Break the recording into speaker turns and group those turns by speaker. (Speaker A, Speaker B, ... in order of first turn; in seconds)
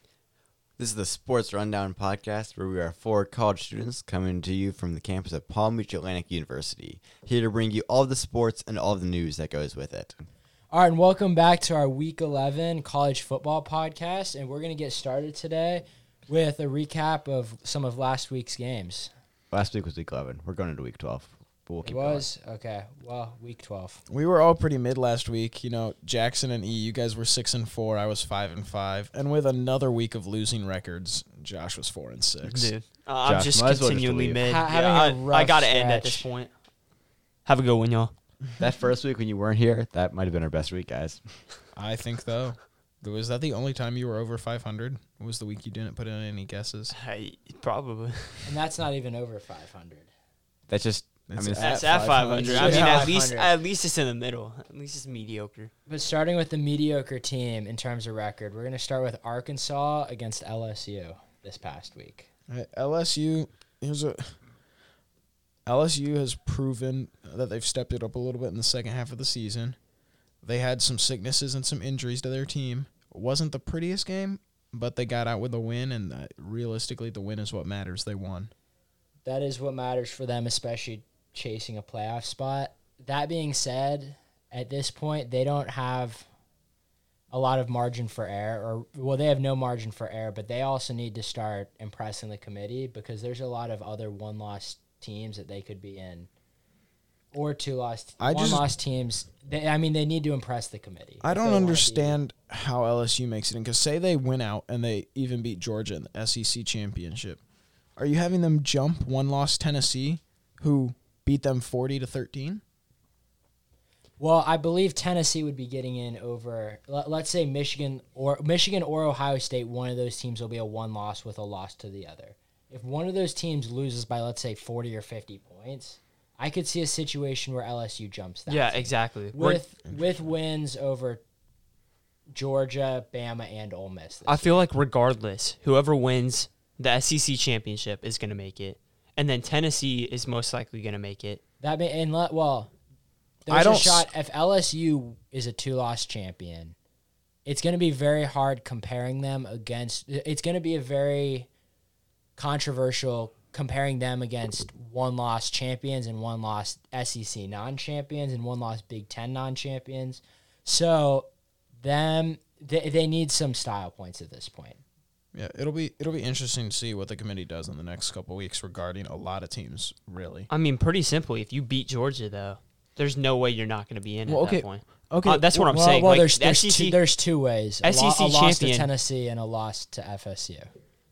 Speaker A: 0.8-10.2, 19.5-22.3, 33.2-34.4, 38.6-41.2, 50.7-52.2
Speaker B: 10.7-19.1, 21.9-24.0, 34.4-36.3, 48.5-50.1, 52.4-53.5, 55.9-62.3, 79.2-86.3, 87.3-96.3, 97.3-102.2, 114.2-131.2, 132.3-134.6, 141.6-142.7, 143.5-146.8, 147.5-151.5, 152.4-161.3, 161.8-164.8, 175.7-180.7
Speaker C: 24.1-32.7, 41.7-46.9, 51.3-53.1, 62.5-64.3, 65.7-69.8, 70.4-78.5, 98.2-98.7, 101.2-107.4, 108.0-112.6, 143.5-144.1, 165.3-170.5, 174.3-175.8
Speaker D: 32.4-36.5, 37.5-38.1, 46.9-48.6, 51.6-55.7, 128.5-129.6, 134.3-141.4, 170.5-177.0, 177.8-178.9